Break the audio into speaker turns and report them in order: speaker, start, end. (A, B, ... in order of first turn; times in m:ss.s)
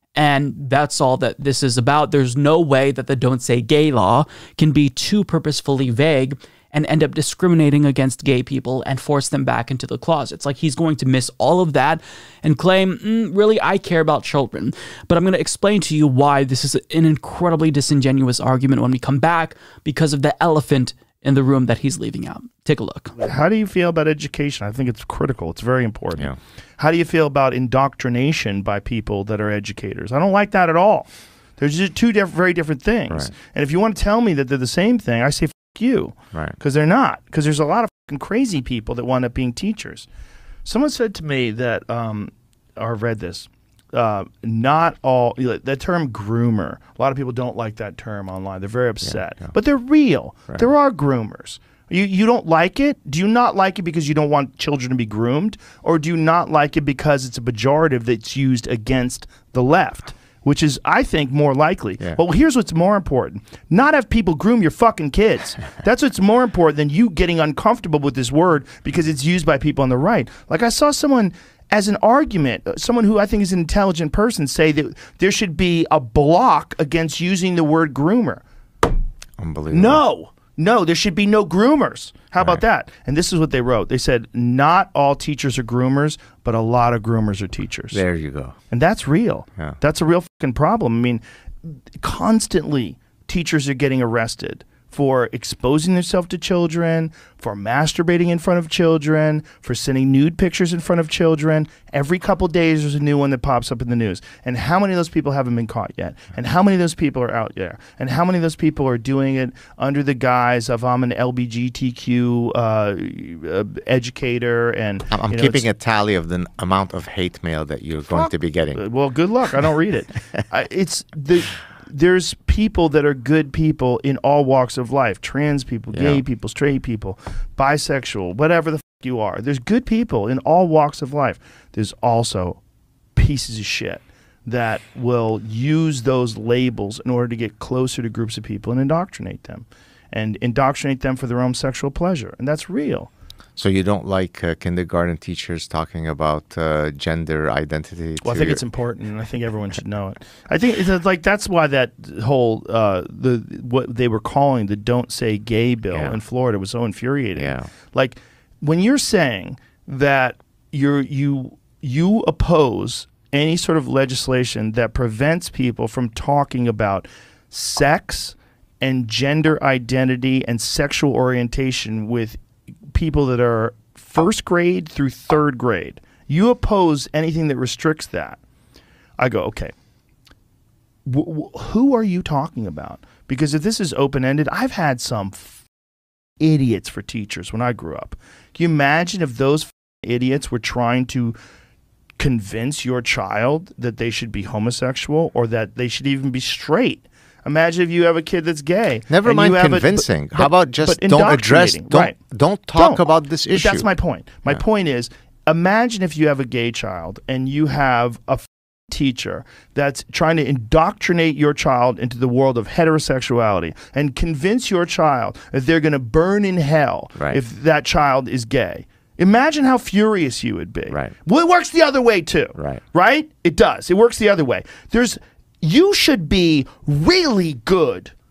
0:00.2-0:23.1 A
0:23.2-0:40.1 B
0:40.6-1:18.4 B
0:49.0-0:49.3 C
1:19.4-1:20.0 C
1:19.7-1:28.0 B
1:27.9-1:28.5 C
1:28.7-1:31.2 B
1:32.0-1:55.7 B
1:55.1-1:58.8 C
1:58.1-2:12.6 B
2:05.9-2:06.2 C
2:13.2-2:23.1 B
2:23.6-2:28.6 C
2:28.2-2:52.4 B
2:35.9-2:36.2 C
2:37.4-2:37.7 C
2:52.9-2:58.4 B
2:59.2-2:59.7 B
3:01.0-3:05.6 B
3:06.4-3:11.4 B
3:12.2-3:22.2 B
3:19.1-3:23.9 C
3:22.7-3:48.1 B
3:42.6-3:42.8 C